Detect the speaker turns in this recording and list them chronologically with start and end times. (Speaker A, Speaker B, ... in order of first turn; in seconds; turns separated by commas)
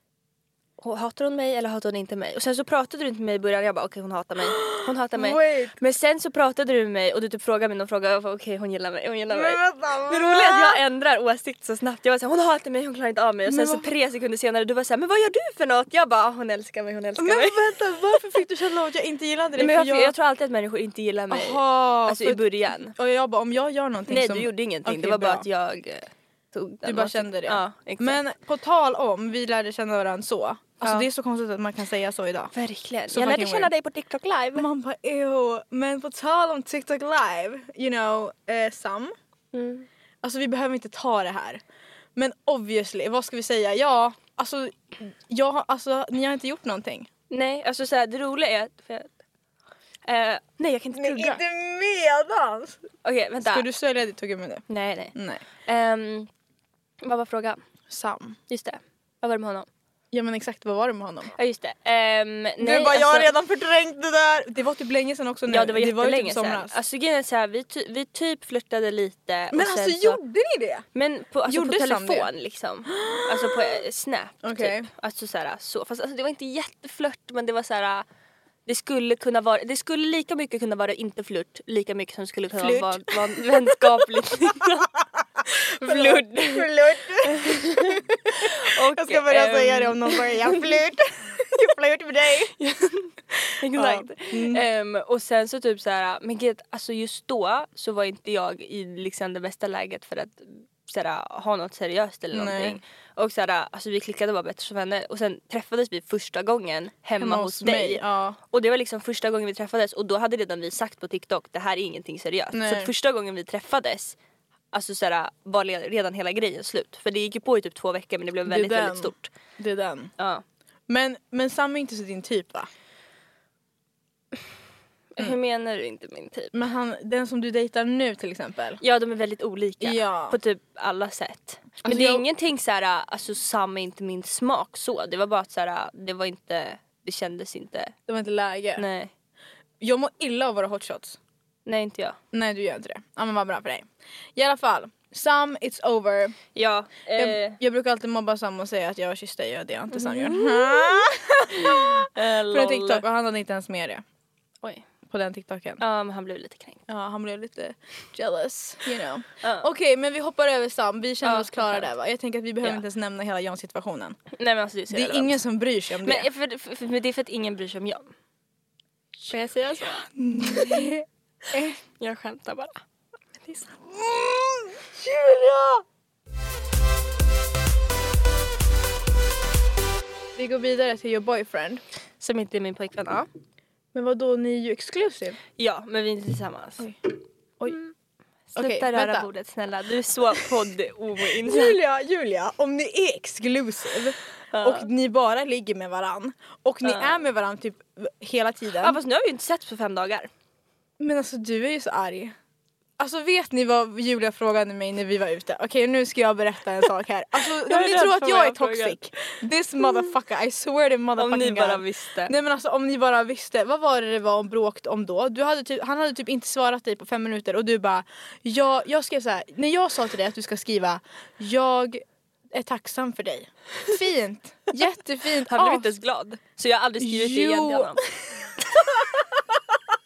Speaker A: 0.8-17.6, Speaker B: 4.7-5.7, Speaker B: 9.3-10.8, Speaker B: 13.4-13.9, Speaker B: 17.2-20.1, Speaker A: 19.6-22.9, Speaker B: 21.3-25.4, Speaker A: 24.1-28.2, Speaker B: 26.8-32.5, Speaker A: 30.8-31.1, Speaker A: 32.5-34.7, Speaker B: 33.1-33.7, Speaker B: 34.5-39.1, Speaker A: 39.5-39.9, Speaker B: 40.2-41.6, Speaker B: 42.1-47.1, Speaker A: 47.3-49.1, Speaker A: 50.1-51.4, Speaker B: 51.0-52.8, Speaker A: 53.0-53.6, Speaker B: 53.4-54.6, Speaker A: 54.7-55.1, Speaker B: 55.1-55.4, Speaker A: 55.6-56.3, Speaker A: 57.0-57.6, Speaker B: 57.9-58.4, Speaker A: 58.5-59.7, Speaker B: 60.1-61.3, Speaker A: 61.4-63.3, Speaker B: 62.6-66.8, Speaker A: 65.5-70.2, Speaker B: 69.5-70.8, Speaker A: 70.9-78.0, Speaker B: 71.5-72.3, Speaker B: 73.0-73.7, Speaker B: 74.4-74.9, Speaker A: 78.7-84.9, Speaker B: 82.5-84.0, Speaker A: 85.5-86.7, Speaker B: 85.8-92.5, Speaker A: 87.2-90.8, Speaker A: 92.6-114.2, Speaker B: 93.4-94.6, Speaker B: 102.3-102.8, Speaker B: 107.2-108.4, Speaker B: 112.5-112.9, Speaker A: 114.7-119.3, Speaker B: 118.5-120.1, Speaker B: 120.9-122.7, Speaker A: 125.1-126.5, Speaker B: 126.5-128.8, Speaker A: 128.8-137.9, Speaker B: 129.8-130.4, Speaker B: 131.8-132.2, Speaker B: 138.1-138.8, Speaker A: 138.8-139.1, Speaker B: 139.8-141.2, Speaker A: 141.7-142.2, Speaker B: 142.3-146.4, Speaker A: 146.5-147.6, Speaker B: 147.2-154.0, Speaker A: 149.9-153.0, Speaker B: 155.1-155.8, Speaker A: 155.8-156.8, Speaker B: 156.9-164.2, Speaker A: 159.4-159.7, Speaker A: 161.2-161.9, Speaker A: 164.4-165.4, Speaker B: 164.9-166.3, Speaker A: 166.0-168.1, Speaker A: 169.3-170.9, Speaker B: 170.1-171.8, Speaker A: 172.0-172.8, Speaker B: 173.8-175.8, Speaker B: 180.3-181.8, Speaker A: 182.2-183.3, Speaker B: 183.9-185.4, Speaker A: 185.6-186.8, Speaker A: 187.7-187.9, Speaker A: 188.5-191.8, Speaker B: 188.6-189.3, Speaker B: 191.4-199.0, Speaker A: 194.5-194.9, Speaker A: 196.8-197.2, Speaker A: 198.8-200.3, Speaker B: 201.0-202.3, Speaker B: 203.0-225.9, Speaker A: 207.7-209.0, Speaker A: 211.2-212.3, Speaker A: 225.5-228.0, Speaker B: 227.0-229.7